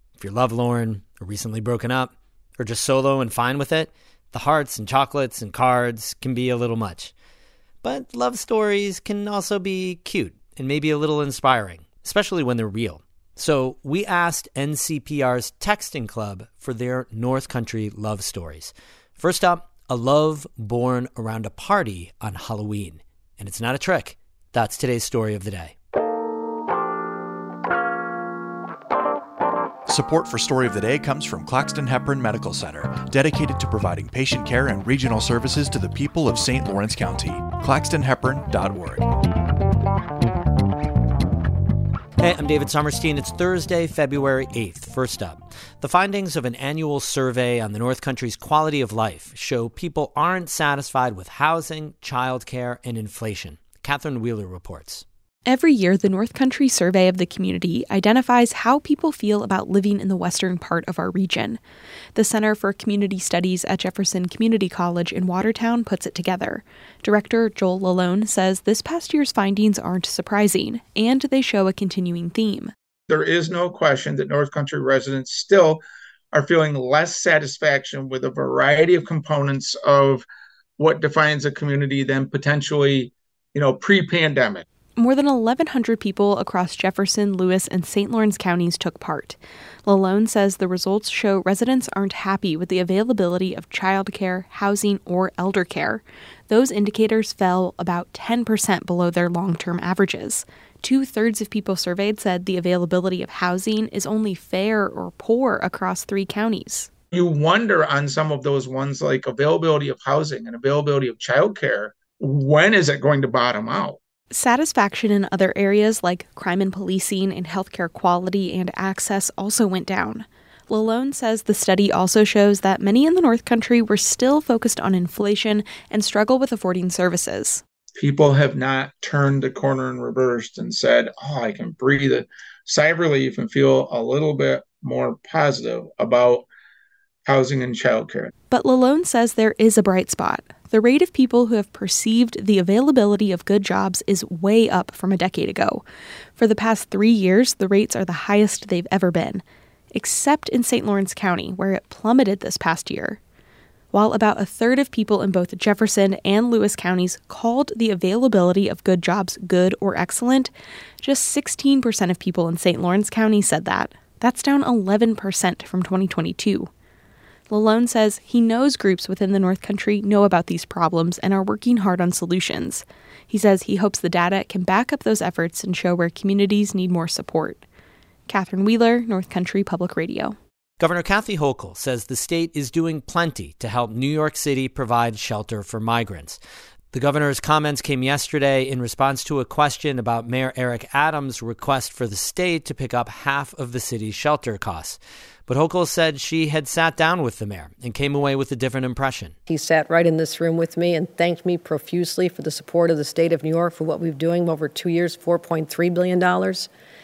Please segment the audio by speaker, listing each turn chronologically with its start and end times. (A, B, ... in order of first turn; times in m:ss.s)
0:00.2-0:07.1 A
0:07.8-0:25.7 A
0:29.9-0:39.1 B
0:42.2-0:55.0 A
0:55.5-1:01.6 C
1:02.1-1:12.7 C
1:13.1-1:15.8 D
1:16.3-1:20.2 D
1:20.8-1:24.6 D
1:25.0-1:46.9 C
1:47.1-1:54.0 D
1:54.3-2:07.6 C
2:08.0-2:16.4 D
2:17.2-2:18.3 D
2:18.5-2:25.8 C
2:26.4-2:33.2 C
2:33.9-2:46.7 C
2:47.5-2:57.6 C
2:58.3-3:00.4 C
3:00.8-3:06.4 A
3:06.9-3:19.3 A
3:19.5-3:26.7 E